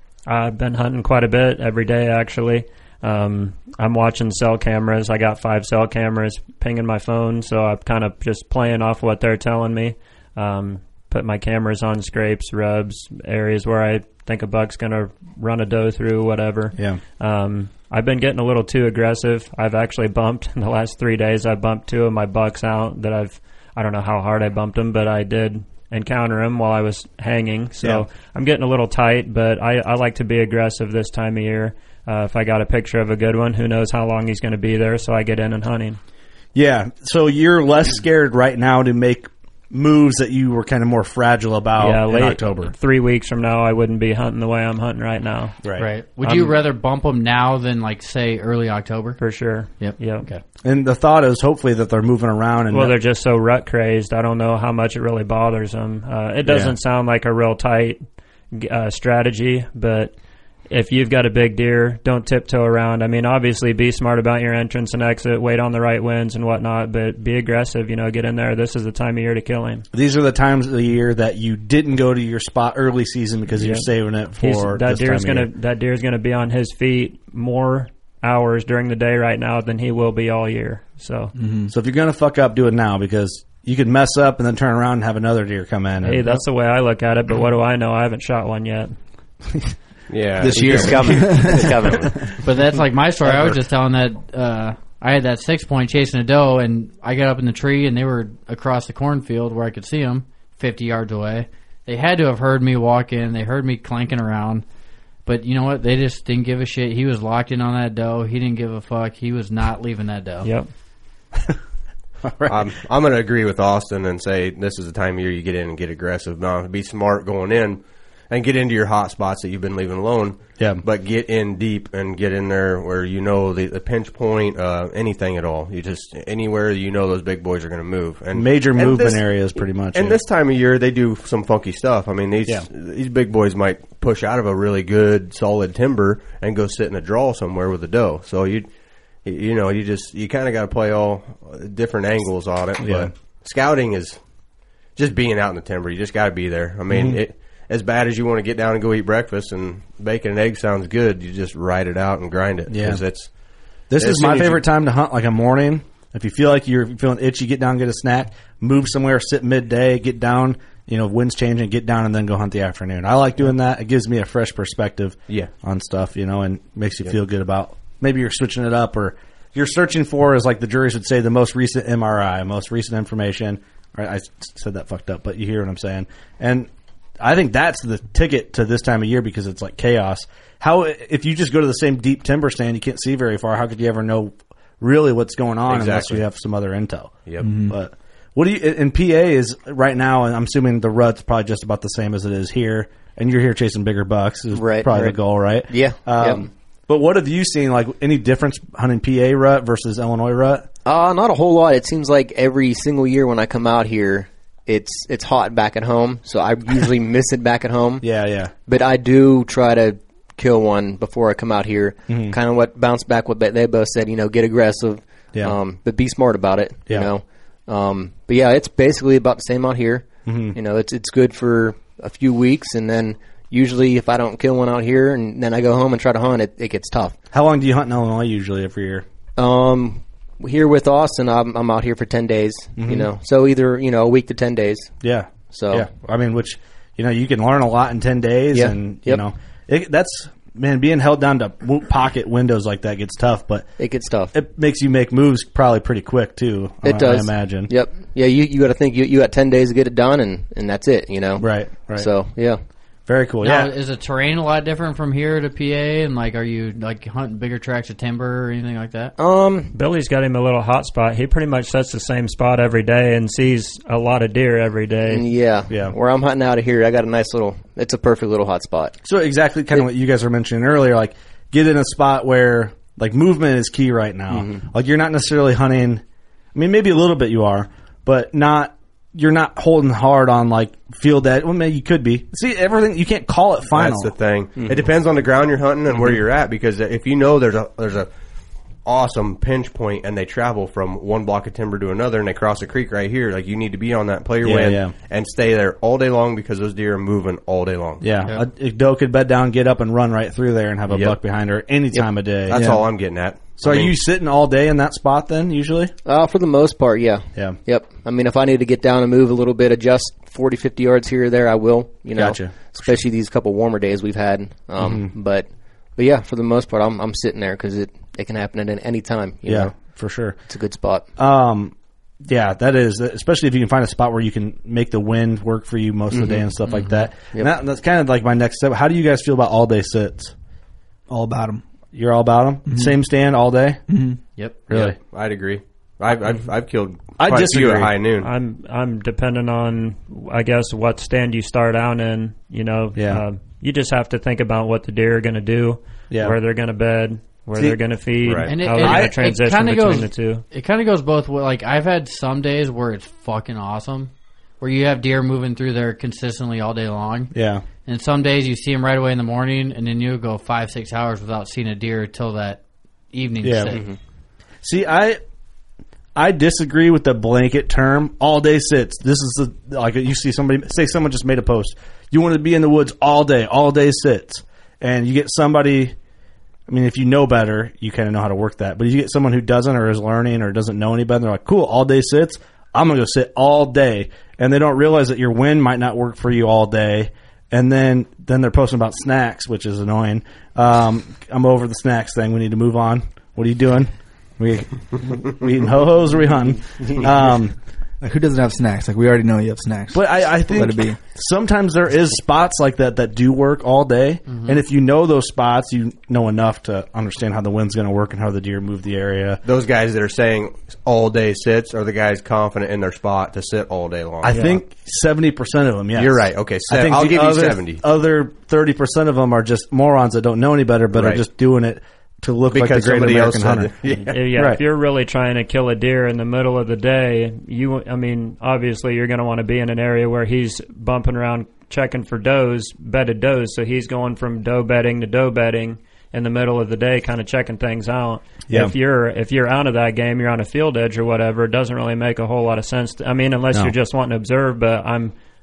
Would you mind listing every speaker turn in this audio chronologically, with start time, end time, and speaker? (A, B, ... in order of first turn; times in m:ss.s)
0:00.3-0:36.0 A
0:27.8-0:28.1 B
0:36.6-0:42.7 B
0:41.8-0:45.6 A
0:45.8-0:49.2 C
0:46.2-0:46.6 A
0:49.2-0:50.3 A
0:49.8-0:50.4 C
0:50.6-0:53.0 B
0:52.7-0:58.0 A
0:56.4-0:56.8 B
0:58.5-1:00.1 A
1:00.7-1:09.8 A
1:09.9-1:15.5 B
1:13.5-1:13.9 A
1:14.4-1:21.3 A
1:21.4-1:21.7 D
1:21.7-1:26.3 B
1:26.0-1:28.9 A
1:30.1-1:32.1 E
1:30.4-1:31.5 B
1:30.4-1:31.8 D
1:30.6-1:32.1 F
1:32.4-1:44.6 C
1:33.2-1:33.6 B
1:45.3-1:50.5 C
1:50.4-1:50.7 A
1:52.2-1:52.6 B
1:52.5-2:18.7 E
2:00.6-2:00.8 B
2:08.3-2:10.2 B
2:19.2-2:24.2 E
2:22.8-2:23.1 B
2:25.0-2:33.3 E
2:26.9-2:27.2 B
2:32.7-2:33.0 B
2:33.9-2:56.7 B
2:34.0-2:34.6 E
2:57.2-3:20.7 B
3:05.7-3:06.2 E
3:07.4-3:07.8 D
3:14.5-3:15.2 F
3:15.7-3:16.5 F
3:20.8-3:28.0 F
3:28.0-3:28.5 B
3:28.7-3:47.2 F
3:32.1-3:32.4 B
3:40.3-3:40.6 B
3:47.3-3:49.1 B
3:49.4-3:54.9 F
3:52.8-3:53.1 B
3:55.0-4:03.7 B
3:55.5-3:55.9 F
3:58.5-3:59.2 F
4:03.8-4:04.3 F
4:04.3-4:07.7 B
4:06.8-4:12.6 F
4:11.4-4:12.1 B
4:13.1-4:13.7 B
4:13.4-4:19.1 C
4:19.2-4:19.7 F
4:19.7-4:25.3 A
4:25.1-4:29.0 F
4:29.0-4:36.0 B
4:34.3-4:34.6 F
4:36.6-4:44.1 B
4:43.7-4:48.1 E
4:48.8-4:58.1 E
4:54.4-4:54.9 B
4:58.0-5:02.8 B
5:00.9-5:01.2 E
5:02.5-5:04.0 E
5:02.5-5:02.8 D
5:03.6-5:05.9 B
5:06.0-5:15.5 F
5:12.2-5:13.0 B
5:14.8-5:15.1 B
5:16.0-5:19.8 F
5:19.5-5:20.4 B
5:20.5-5:21.0 F
5:21.2-5:30.3 B
5:26.1-5:26.5 F
5:31.1-5:31.6 D
5:31.9-5:33.8 B
5:32.7-5:33.0 D
5:33.9-5:34.2 D
5:34.7-5:35.0 B
5:34.7-5:38.3 E
5:37.2-5:38.0 B
5:38.2-5:50.4 A
5:43.0-5:43.2 B
5:46.1-5:46.4 B
5:48.2-5:48.5 E
5:48.5-5:57.3 C
5:48.8-5:49.2 B
5:57.3-5:57.6 B
5:57.8-6:02.6 C
6:03.1-6:03.8 C
6:03.4-6:03.8 B
6:04.6-6:05.2 B
6:06.2-6:16.0 B
6:16.7-6:37.6 B
6:38.0-6:41.0 D
6:39.9-6:49.4 B
6:44.3-6:44.6 C
6:49.4-6:54.4 E
6:54.2-7:04.6 B
6:54.3-6:54.6 A
6:55.9-6:57.8 E
7:00.9-7:01.2 E
7:02.5-7:04.3 E
7:04.1-7:25.1 A
7:18.5-7:18.7 B